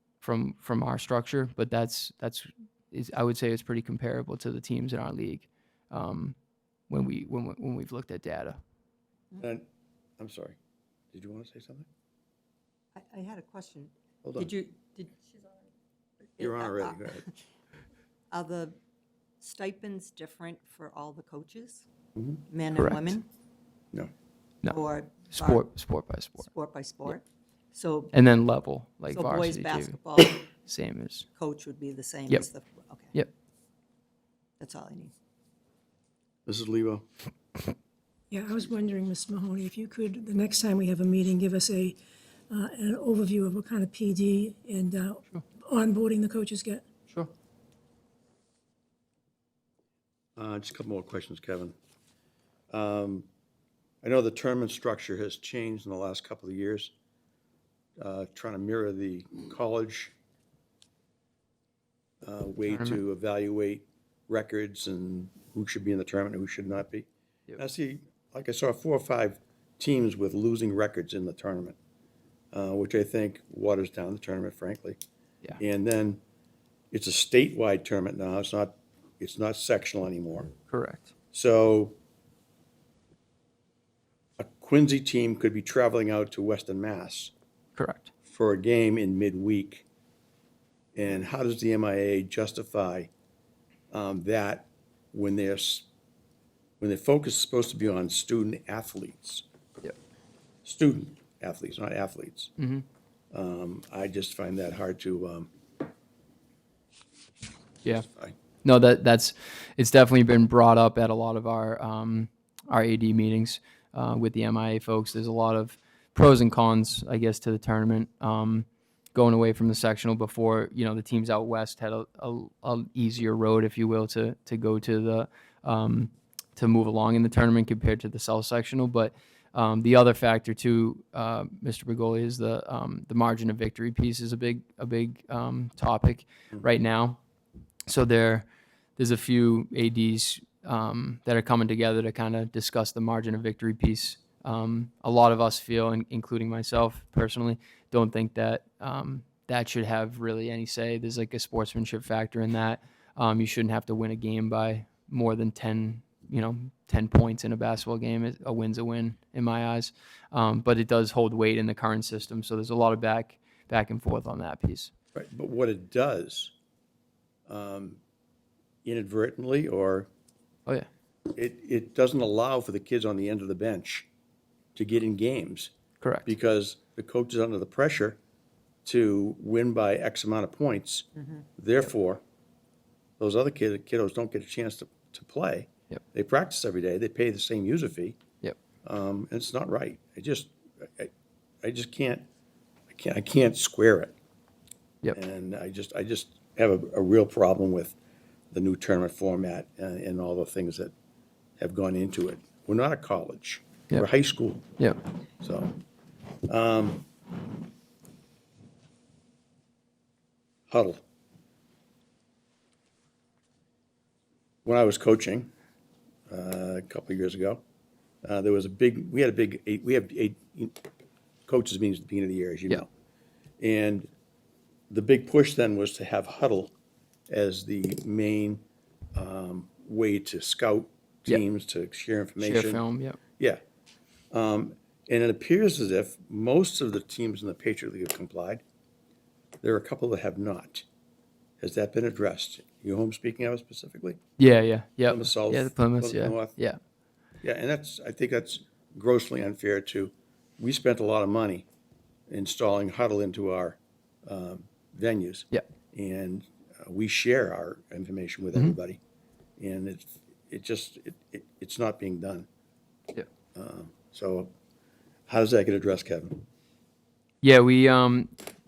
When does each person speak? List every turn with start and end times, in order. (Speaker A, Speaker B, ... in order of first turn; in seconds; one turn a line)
Speaker A: 0.2-6.4
Speaker A: 6.9-8.6
Speaker B: 9.4-9.6
Speaker B: 10.2-10.6
Speaker B: 11.1-11.9
Speaker C: 13.0-15.3
Speaker B: 14.2-14.5
Speaker C: 16.4-17.4
Speaker B: 16.4-17.2
Speaker C: 18.3-18.8
Speaker C: 19.4-21.9
Speaker C: 22.5-23.3
Speaker A: 22.8-23.1
Speaker A: 24.6-26.5
Speaker C: 24.7-25.6
Speaker C: 26.4-28.1
Speaker A: 28.1-31.3
Speaker C: 29.1-30.5
Speaker C: 31.4-33.2
Speaker C: 34.6-35.1
Speaker B: 36.5-37.0
Speaker D: 38.3-42.0
Speaker D: 42.5-46.9
Speaker B: 50.4-51.8
Speaker B: 52.7-53.3
Speaker B: 54.0-56.9
Speaker B: 58.0-60.1
Speaker B: 62.2-71.8
Speaker A: 62.7-63.0
Speaker B: 72.5-75.0
Speaker B: 75.6-76.2
Speaker B: 76.9-80.5
Speaker A: 80.7-81.1
Speaker B: 81.3-82.0
Speaker B: 84.4-87.3
Speaker A: 87.8-88.1
Speaker B: 88.3-89.8
Speaker B: 91.0-93.1
Speaker B: 93.9-95.9
Speaker B: 96.8-99.5
Speaker B: 100.6-102.5
Speaker A: 102.6-102.8
Speaker B: 103.3-105.5
Speaker B: 107.9-108.3
Speaker A: 108.6-137.2
Speaker A: 137.9-138.5
Speaker A: 139.0-164.9
Speaker B: 165.1-166.5
Speaker B: 167.5-168.0
Speaker B: 168.8-170.1
Speaker B: 171.3-174.1
Speaker B: 174.8-175.7
Speaker A: 176.0-176.3
Speaker B: 176.2-178.2
Speaker B: 178.8-181.1
Speaker B: 181.6-182.2
Speaker B: 183.2-188.2
Speaker B: 188.8-191.1
Speaker B: 191.6-192.3
Speaker B: 192.9-194.2
Speaker B: 195.1-198.0
Speaker B: 198.5-200.9
Speaker B: 201.6-204.8
Speaker B: 205.4-205.8
Speaker B: 206.5-207.1
Speaker B: 210.7-211.0
Speaker B: 214.7-215.5
Speaker B: 216.3-217.6
Speaker B: 218.2-220.8
Speaker B: 221.5-222.9
Speaker B: 223.6-224.1
Speaker B: 224.9-226.7
Speaker B: 227.3-228.6
Speaker B: 229.1-232.8
Speaker A: 232.4-233.2
Speaker B: 234.3-238.6
Speaker B: 239.6-240.8
Speaker B: 241.6-244.2
Speaker A: 244.4-246.8
Speaker B: 245.1-246.6
Speaker B: 247.4-251.7
Speaker B: 252.3-259.0
Speaker B: 259.6-262.5
Speaker B: 263.6-264.5
Speaker B: 265.3-266.4
Speaker A: 267.4-268.3